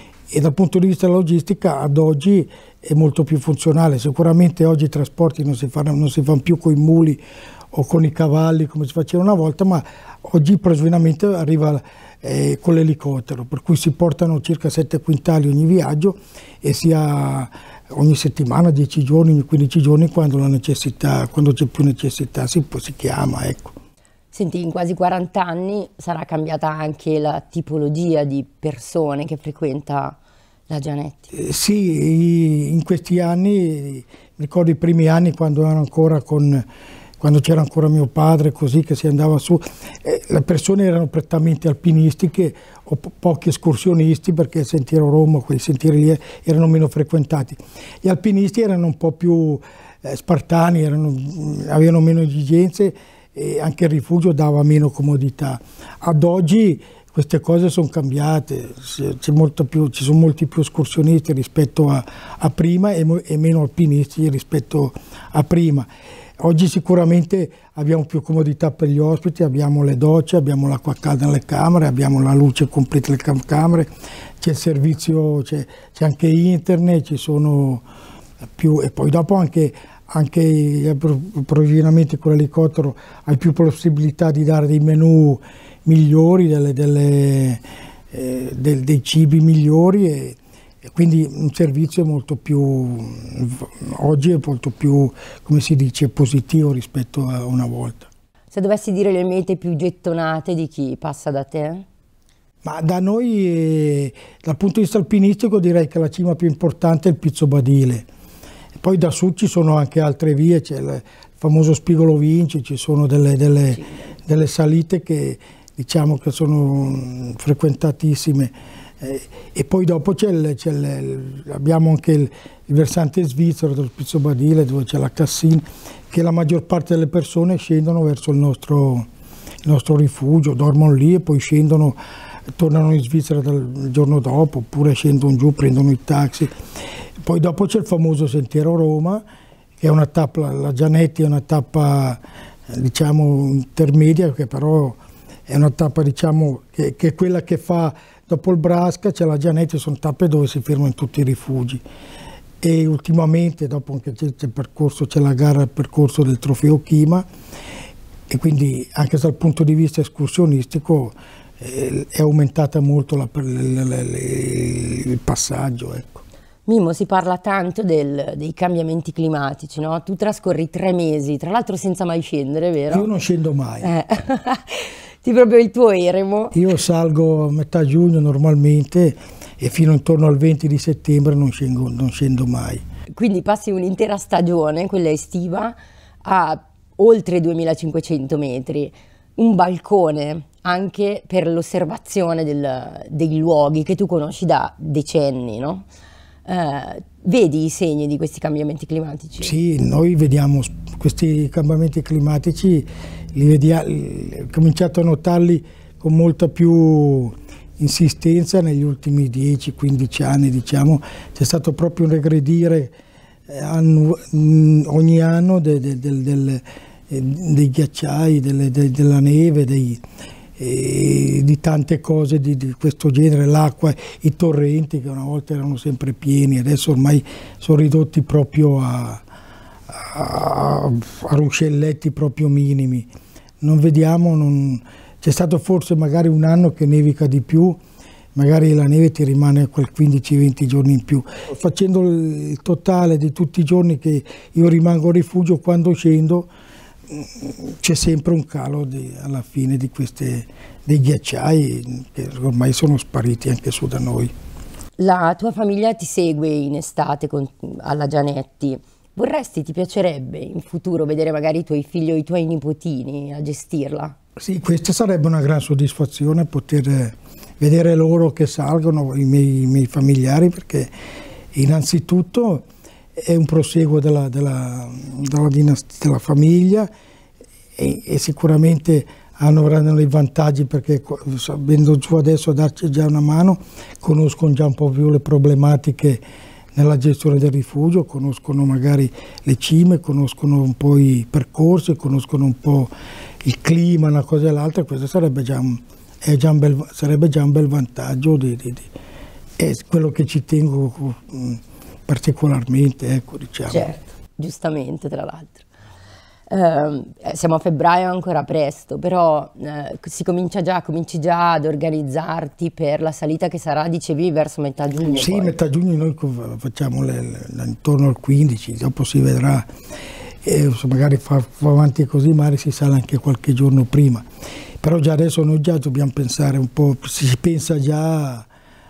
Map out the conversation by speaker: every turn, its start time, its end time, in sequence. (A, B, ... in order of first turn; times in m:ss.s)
0:00.3-0:23.8 A
0:24.3-0:30.2 B
0:30.7-0:31.3 B
0:31.3-0:36.7 A
0:37.2-1:05.9 A
1:06.4-1:17.8 A
1:18.6-1:38.1 A
1:38.5-1:41.9 B
1:42.6-1:48.1 A
1:48.8-2:09.1 A
2:09.6-2:12.0 A
2:12.6-2:16.5 A
2:17.2-2:19.2 A
2:19.8-2:31.8 A
2:32.6-2:37.3 A
2:38.3-2:46.2 A
2:46.7-2:53.1 B
2:52.9-2:53.9 A
2:53.8-2:56.6 B
2:56.5-3:02.8 A
3:03.1-3:15.9 B
3:16.5-3:19.6 B
3:19.4-3:32.9 A
3:33.5-3:40.0 A
3:40.6-3:49.2 A
3:49.9-3:53.1 A
3:53.6-3:57.8 A
3:58.4-4:06.5 A
4:07.1-4:14.3 A
4:15.0-4:24.2 B
4:24.4-4:30.9 A
4:31.5-4:36.9 A
4:37.8-4:46.2 A
4:46.8-4:58.9 A
4:59.6-5:03.9 A
5:03.7-5:05.7 B
5:06.5-5:15.6 B
5:15.2-5:19.7 A
5:20.4-5:24.3 A
5:24.8-5:28.5 A